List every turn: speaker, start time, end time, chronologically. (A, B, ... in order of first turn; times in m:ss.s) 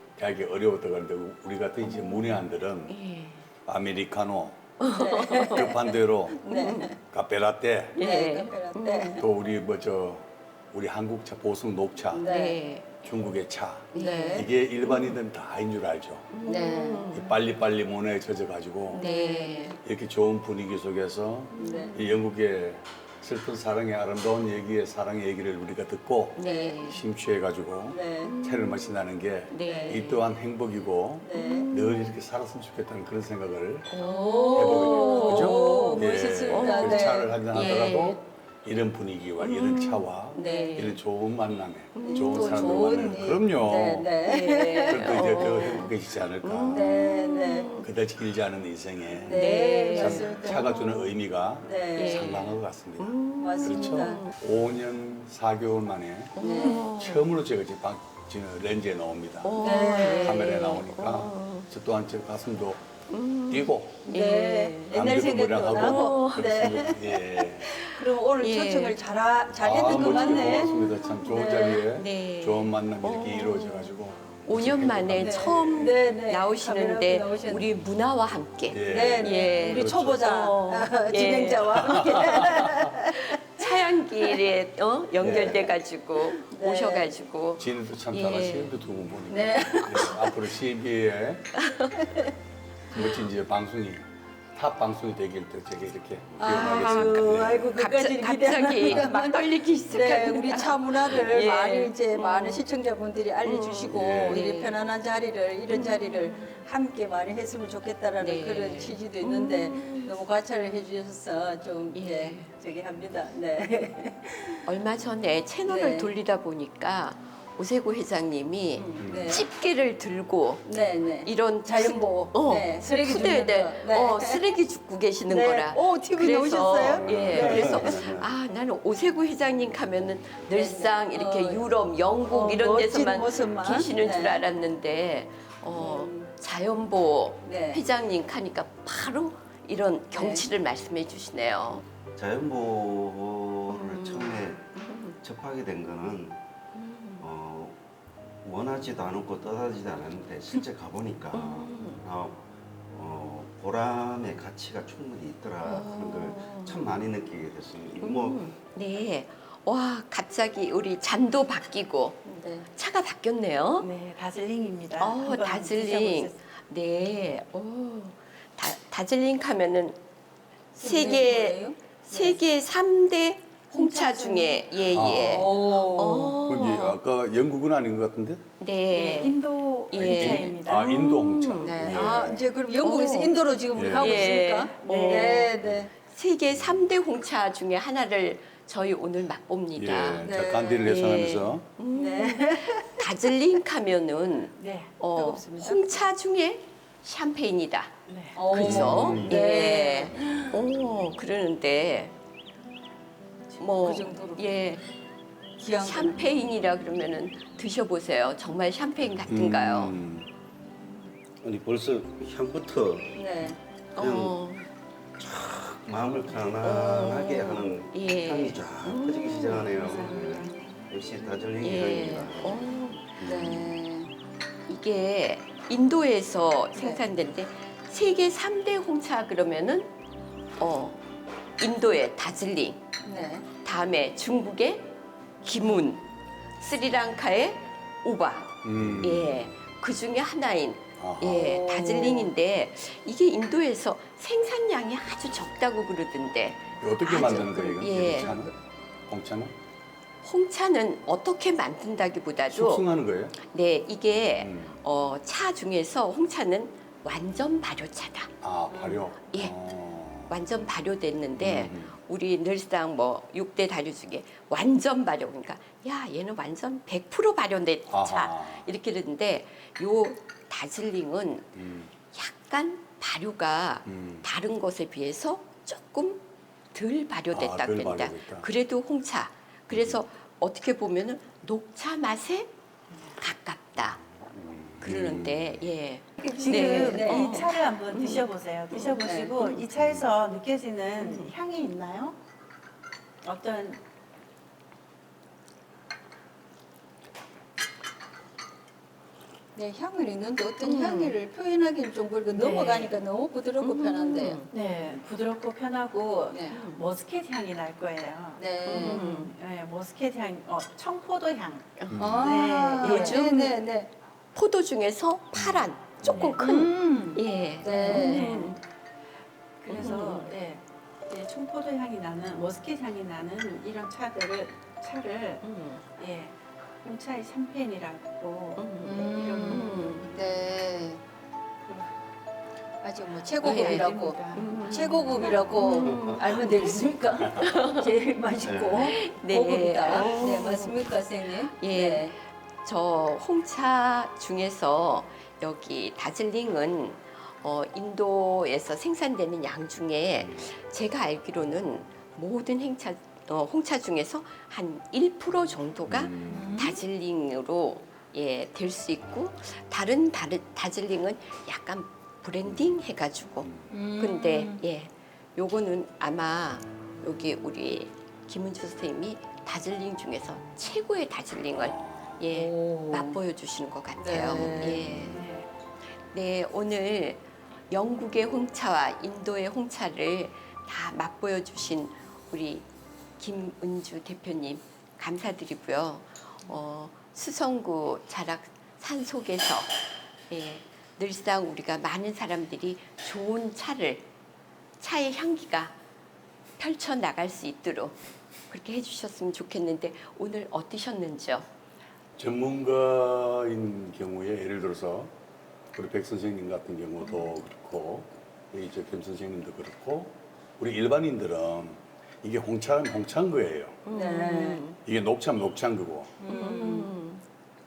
0:00.2-0:03.0 A
0:01.8-0:02.2 B
0:02.9-0:03.4 B
0:03.7-0:04.7 A
0:04.8-0:05.7 B
0:04.9-0:07.0 C
0:05.4-0:08.0 A
0:06.5-0:06.9 B
0:08.0-0:09.2 B
0:08.0-0:09.3 C
0:09.2-0:12.3 A
0:12.1-0:12.6 C
0:12.3-0:12.9 B
0:13.0-0:16.3 A
0:13.9-0:15.2 B
0:13.9-0:14.5 C
0:16.3-0:17.4 B
0:16.5-0:17.1 C
0:17.1-0:19.1 A
0:18.9-0:19.8 C
0:18.9-0:19.8 B
0:19.8-0:33.9 A
0:21.5-0:22.2 B
0:21.6-0:22.0 C
0:26.4-0:27.0 B
0:26.4-0:26.8 C
0:27.9-0:28.4 C
0:28.2-0:28.9 B
0:29.5-0:30.2 B
0:29.7-0:30.0 C
0:31.2-0:31.7 C
0:31.3-0:32.2 B
0:33.9-0:38.2 B
0:34.0-0:37.9 C
0:34.5-0:44.1 A
0:39.4-0:41.0 B
0:40.4-0:40.9 C
0:42.0-0:43.3 B
0:42.0-0:45.9 C
0:44.2-0:47.9 B
0:44.9-0:47.0 A
0:46.7-0:47.7 C
0:47.8-0:59.6 A
0:49.1-0:50.9 C
0:49.3-0:51.1 B
0:51.6-0:52.3 C
0:52.0-0:54.4 B
0:53.4-0:54.2 C
0:56.4-0:57.2 B
0:56.4-0:56.8 C
0:59.4-1:01.7 B
0:59.6-1:00.5 C
1:00.1-1:02.8 A
1:03.1-1:05.0 B
1:03.5-1:04.1 A
1:04.0-1:10.7 C
1:04.9-1:07.7 A
1:05.7-1:06.8 B
1:07.7-1:09.0 B
1:09.6-1:15.9 A
1:09.8-1:28.8 B
1:11.2-1:11.8 C
1:15.2-1:17.7 C
1:18.7-1:20.3 A
1:18.8-1:24.4 C
1:21.7-1:22.7 A
1:25.2-1:25.7 C
1:25.2-1:25.6 A
1:26.3-1:27.2 C
1:27.6-1:31.4 A
1:29.3-1:30.4 C
1:31.6-1:31.9 B
1:32.0-1:32.3 C
1:32.9-1:37.7 A
1:36.4-1:42.6 B
1:36.4-1:54.8 C
1:43.4-1:44.8 B
1:43.9-1:44.4 A
1:45.7-1:46.6 B
1:48.2-1:50.2 B
1:51.9-1:52.5 B
1:54.7-2:21.8 B
1:55.7-1:56.1 C
1:58.8-1:59.4 C
1:59.0-1:59.4 A
2:00.6-2:04.4 C
2:05.3-2:08.2 C
2:07.0-2:08.3 D
2:10.5-2:11.7 C
2:12.3-2:14.4 C
2:15.7-2:16.3 C
2:17.4-2:17.8 C
2:20.1-2:20.5 C
2:22.2-2:26.4 D
2:23.7-2:25.2 B
2:26.8-2:27.2 B
2:27.2-2:27.8 D
2:28.4-2:38.5 D
2:31.3-2:32.0 B
2:35.6-2:36.8 B
2:38.0-2:42.2 B
2:42.2-2:42.7 C
2:42.7-2:43.9 B
2:43.8-2:46.4 E
2:45.0-2:50.0 B
2:50.7-2:52.3 C
2:50.8-2:57.0 B
2:53.7-2:54.8 E
2:54.9-2:55.5 A
2:55.2-2:56.4 C
2:56.4-2:58.4 A
2:58.6-2:59.4 B
2:58.9-3:01.0 E
2:59.9-3:03.4 B
2:59.9-3:02.4 A
3:01.6-3:05.9 C
3:03.7-3:04.4 A
3:04.0-3:05.5 B
3:04.8-3:05.5 E
3:06.1-3:22.1 B
3:06.5-3:06.8 A
3:09.7-3:11.7 A
3:10.2-3:11.0 C
3:11.9-3:13.3 C
3:14.6-3:15.0 E
3:15.1-3:16.1 C
3:18.1-3:18.4 E
3:18.3-3:20.3 C
3:18.6-3:19.4 A
3:20.2-3:20.5 E
3:23.6-3:24.8 B
3:23.7-3:24.4 C
3:25.6-3:26.3 C
3:25.8-3:30.0 B
3:29.3-3:30.3 A
3:31.4-3:33.3 D
3:33.2-3:33.6 C
3:34.0-3:34.7 B
3:34.0-3:34.4 D
3:35.2-3:43.5 D
3:36.6-3:39.9 B
3:39.8-3:40.8 E
3:41.6-3:43.1 B
3:43.2-3:44.1 C
3:43.2-3:43.6 A
3:44.7-3:49.9 B
3:46.8-3:47.0 C
3:50.6-3:51.0 B
3:51.6-3:52.8 B
3:53.0-3:53.5 C
3:53.6-3:54.9 B
3:55.4-3:56.0 B
3:56.6-4:08.3 B
3:58.6-3:59.4 A
4:01.0-4:01.4 A
4:01.3-4:02.3 C
4:06.8-4:08.5 A
4:08.0-4:08.5 C
4:09.1-4:09.5 A
4:10.2-4:12.8 B
4:12.5-4:13.4 A
4:13.4-4:18.3 B
4:14.4-4:14.8 A
4:18.4-4:20.4 A
4:18.7-4:19.1 C
4:19.3-4:19.5 B
4:20.3-4:31.5 B
4:21.4-4:22.0 A
4:27.9-4:28.7 A
4:31.6-4:31.9 A
4:32.1-4:36.2 B
4:33.8-4:34.3 A
4:36.7-4:42.5 B
4:37.3-4:38.5 A
4:39.7-4:40.0 A
4:43.2-4:44.0 B
4:44.2-4:45.5 A
4:44.8-4:49.0 B
4:46.2-4:47.5 C
4:46.2-4:52.2 E
4:49.0-4:49.4 C
4:49.8-4:50.0 A
4:51.0-4:51.3 B
4:53.2-4:53.8 E
4:59.6-5:04.4 C
5:00.6-5:01.2 B
5:02.4-5:02.9 E
5:03.6-5:04.5 B
5:04.5-5:13.5 E
5:06.3-5:06.6 C
5:06.5-5:06.8 B
5:08.4-5:09.1 C
5:08.6-5:09.3 B
5:11.8-5:12.2 B
5:11.9-5:12.2 A
5:12.0-5:13.9 C
5:12.8-5:13.5 B
5:14.4-5:18.6 B
5:15.3-5:16.3 A
5:16.1-5:17.2 E
5:16.4-5:18.2 C
5:17.7-5:18.6 E
5:19.6-5:25.4 E
5:19.7-5:20.3 B
5:25.4-5:25.8 B
5:26.0-5:26.3 E
5:26.8-5:30.1 E
5:28.6-5:30.1 B
5:28.8-5:31.0 C
5:32.8-5:42.1 C
5:33.4-5:35.4 E
5:33.4-5:37.8 B
5:35.5-5:36.7 D
5:38.4-5:39.0 D
5:38.8-5:40.8 B
5:41.5-6:15.2 B
5:55.9-5:56.7 A
5:56.3-5:56.8 C
6:02.5-6:02.8 A
6:03.4-6:03.8 A
6:03.7-6:04.6 C
6:11.6-6:12.2 A
6:12.3-6:13.2 C
6:14.0-6:15.0 C
6:14.7-6:15.2 A
6:14.9-6:15.5 E
6:16.1-6:22.6 B
6:23.2-6:29.8 B
6:30.3-6:34.1 B
6:34.8-6:35.7 B
6:36.6-6:38.0 B
6:38.5-6:41.5 B
6:42.2-6:45.1 A
6:45.7-6:53.8 A
6:47.0-6:47.3 B
6:53.8-6:54.8 B
6:53.9-6:54.6 C
6:54.8-6:56.2 A
6:56.2-6:56.9 C
6:56.3-6:57.2 B